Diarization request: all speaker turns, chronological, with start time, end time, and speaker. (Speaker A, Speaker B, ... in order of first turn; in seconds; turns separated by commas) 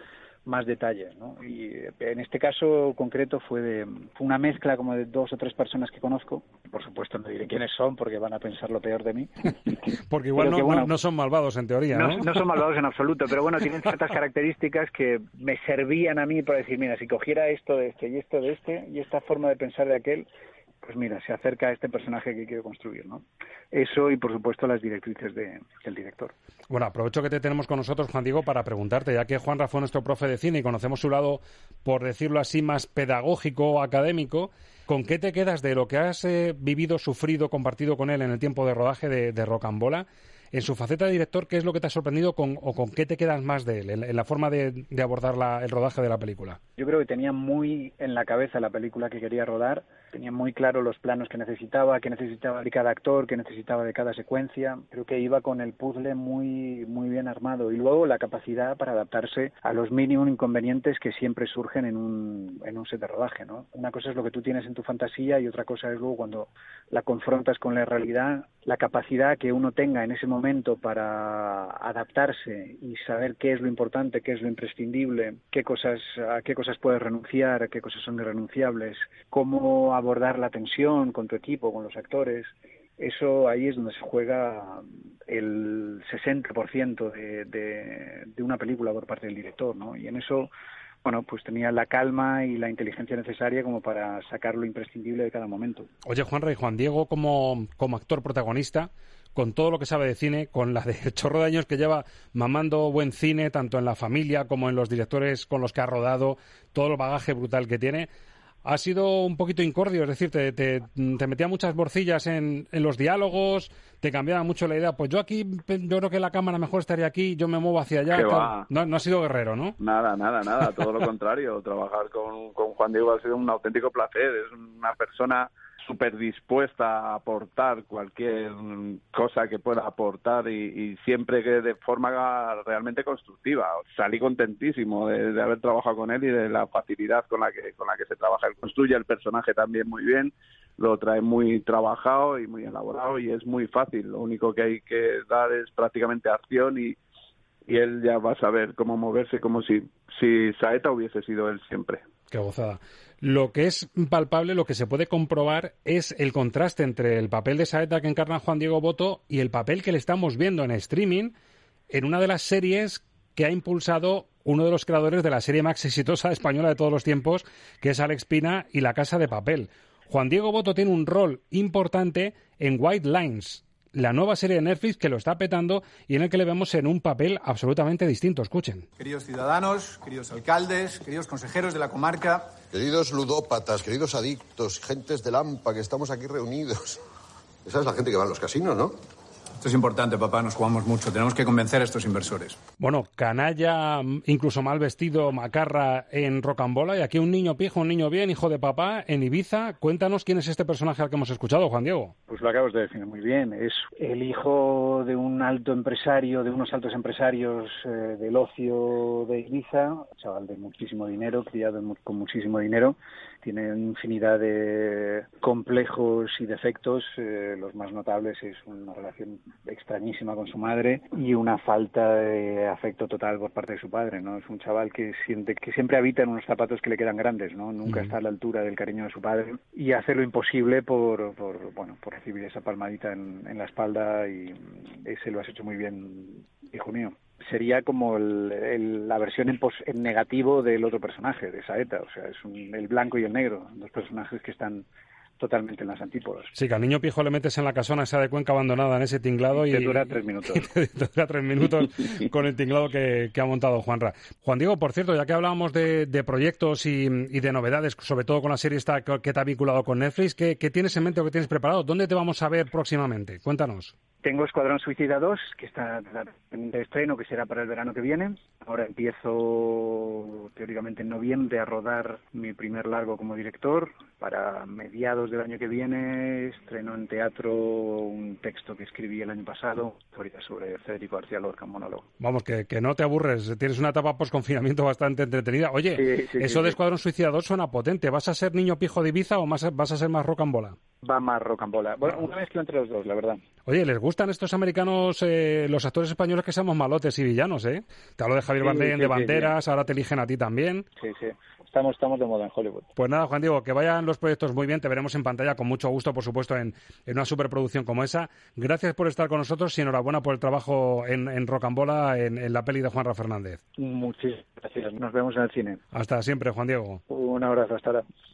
Speaker A: 0.5-9.5, Speaker B: 10.1-12.4, Speaker A: 10.4-10.9, Speaker A: 11.9-20.3, Speaker A: 20.8-26.3, Speaker B: 26.7-46.6, Speaker A: 46.8-90.5, Speaker A: 91.0-95.9, Speaker B: 96.0-108.1, Speaker B: 108.7-119.8, Speaker C: 118.1-118.7, Speaker C: 119.8-147.0, Speaker C: 147.7-152.0, Speaker B: 152.3-161.3, Speaker B: 161.9-178.9, Speaker D: 179.0-182.5, Speaker E: 182.7-187.0, Speaker E: 187.7-189.0, Speaker D: 189.6-192.6, Speaker B: 192.8-202.2, Speaker A: 202.3-244.9, Speaker B: 227.9-228.1, Speaker A: 245.4-246.5, Speaker B: 246.6-263.9, Speaker A: 249.5-250.7, Speaker A: 264.2-282.1, Speaker B: 282.2-290.8, Speaker A: 285.9-286.8, Speaker A: 291.0-293.4, Speaker B: 293.7-300.9, Speaker A: 298.6-299.5, Speaker A: 301.0-302.9, Speaker B: 303.0-313.6, Speaker A: 313.8-315.8, Speaker B: 315.9-317.0, Speaker A: 317.1-318.1